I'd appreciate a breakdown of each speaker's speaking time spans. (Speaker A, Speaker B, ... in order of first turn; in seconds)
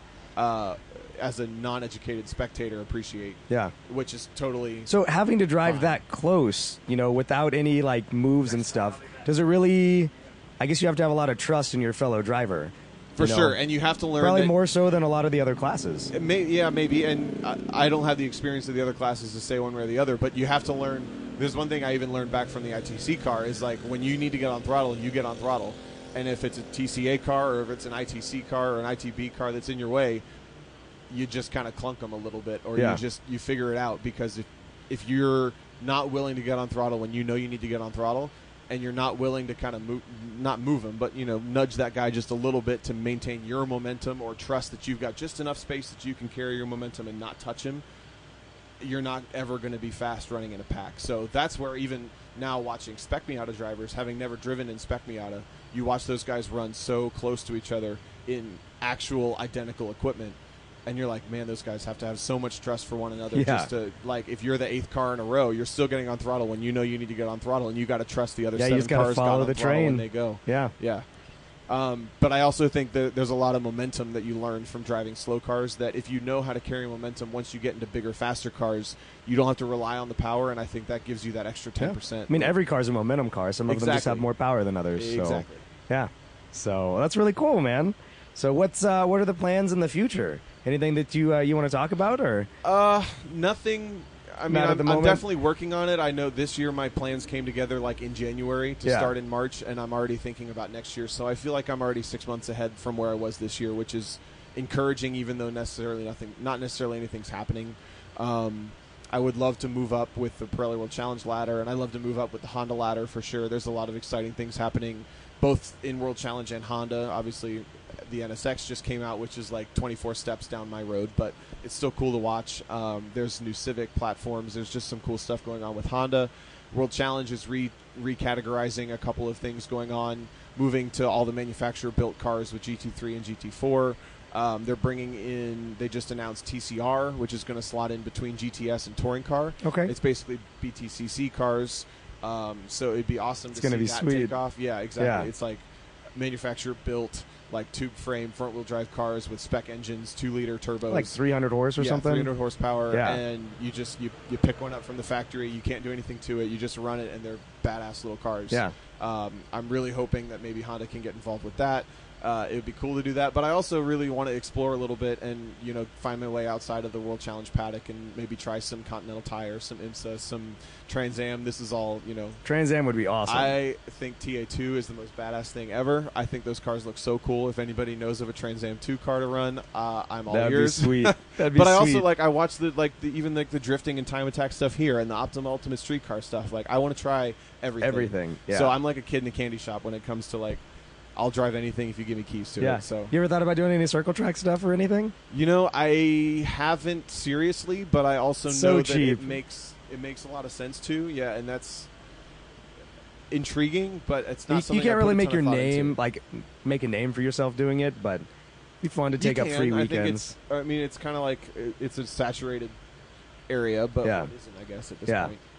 Speaker A: 0.4-4.9, 13.2-14.6, 16.1-30.2, 31.1-47.8, 48.8-71.0, 71.7-82.5, 83.7-84.3, 85.0-85.6, 92.6-145.6, 146.2-151.1, 151.8-172.4, 173.3-190.6, 191.2-193.1, 195.3-201.9, 203.3-206.0, 209.2-212.7, 213.5-215.4
Speaker B: 4.9-13.6, 14.2-16.1, 32.8-33.0, 63.3-63.7, 68.6-70.7, 81.8-92.5, 94.5-95.2, 98.8-99.1, 139.6-139.9, 143.6-144.3, 145.0-145.3, 150.9-152.3, 152.9-153.2, 172.4-173.6, 180.3-182.1, 187.8-188.7, 192.6-195.1, 198.5-199.4, 204.5-208.3, 208.8-210.3, 214.0-214.3, 215.1-215.3